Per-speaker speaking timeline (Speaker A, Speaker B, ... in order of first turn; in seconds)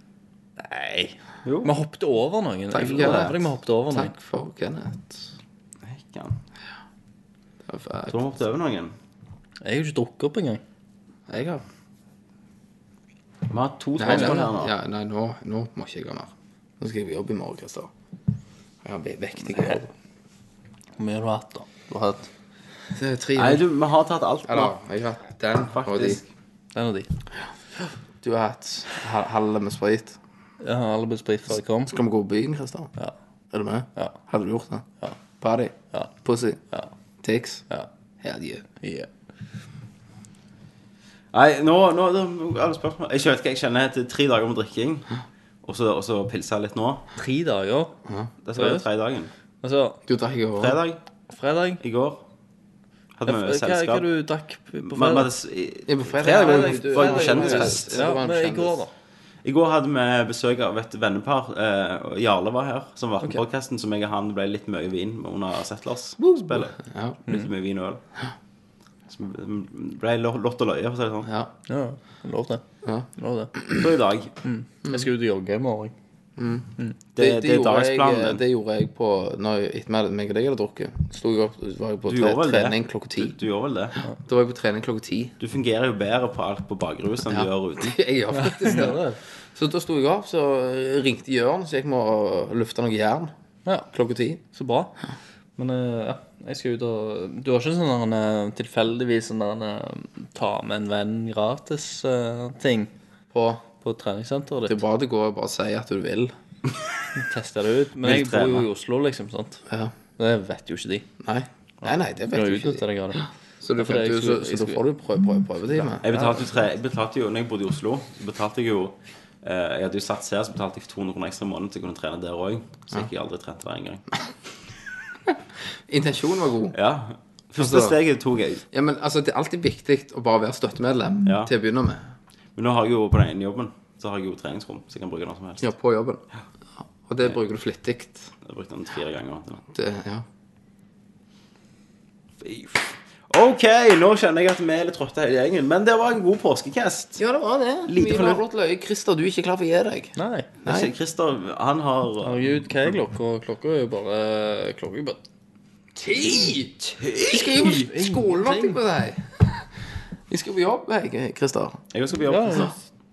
Speaker A: 0.6-4.1, 9.7-10.6, 21.0-22.3, 26.7-27.1, 30.6-31.9, 38.8-39.1, 47.2-48.0, 48.5-48.8, 49.6-50.0, 51.3-51.8, 53.3-55.3, 56.2-58.9, 71.7-73.5, 74.4-75.9, 88.4-89.2, 94.5-95.0, 95.6-102.9, 103.8-104.8, 107.2-111.1, 111.8-113.3, 113.8-114.8, 115.8-116.4, 150.2-150.5, 152.2-155.2, 157.7-158.8, 162.3-162.8
Speaker B: 1.4-1.7, 5.8-6.4, 8.1-8.9, 13.5-14.7, 23.4-24.8, 25.7-26.3, 41.3-45.1, 45.6-47.0, 48.4-49.3, 50.6-51.0, 51.8-52.2, 53.2-54.1, 54.9-57.9, 59.4-68.0, 69.1-71.3, 73.8-74.4, 77.2-78.4, 82.1-83.9, 85.4-88.0, 108.0-108.7, 116.0-124.0, 126.7-128.6, 131.3-131.5, 132.6-135.6, 138.4-139.6, 142.4-147.2, 147.9-148.4, 150.7-153.0, 156.9-157.6, 161.9-162.7
Speaker C: 2.7-5.2, 7.7-8.2, 11.3-11.6, 14.0-17.9, 18.8-19.9, 22.9-23.6, 24.5-26.2, 28.2-30.2, 31.9-32.9, 33.5-36.6, 37.2-37.7, 38.2-38.8, 48.1-48.3, 50.1-50.8, 55.9-58.8, 66.9-67.2, 71.2-71.5, 72.8-73.9, 74.8-75.1, 76.4-83.4, 84.1-85.3, 87.3-89.0, 89.5-93.3, 93.9-94.4, 103.3-103.6, 104.7-106.3, 111.2-116.1, 125.9-126.8, 127.6-128.0, 128.7-132.0, 135.6-136.2, 137.1-138.3, 139.7-140.2, 147.2-150.9, 156.0-159.5, 160.3-161.8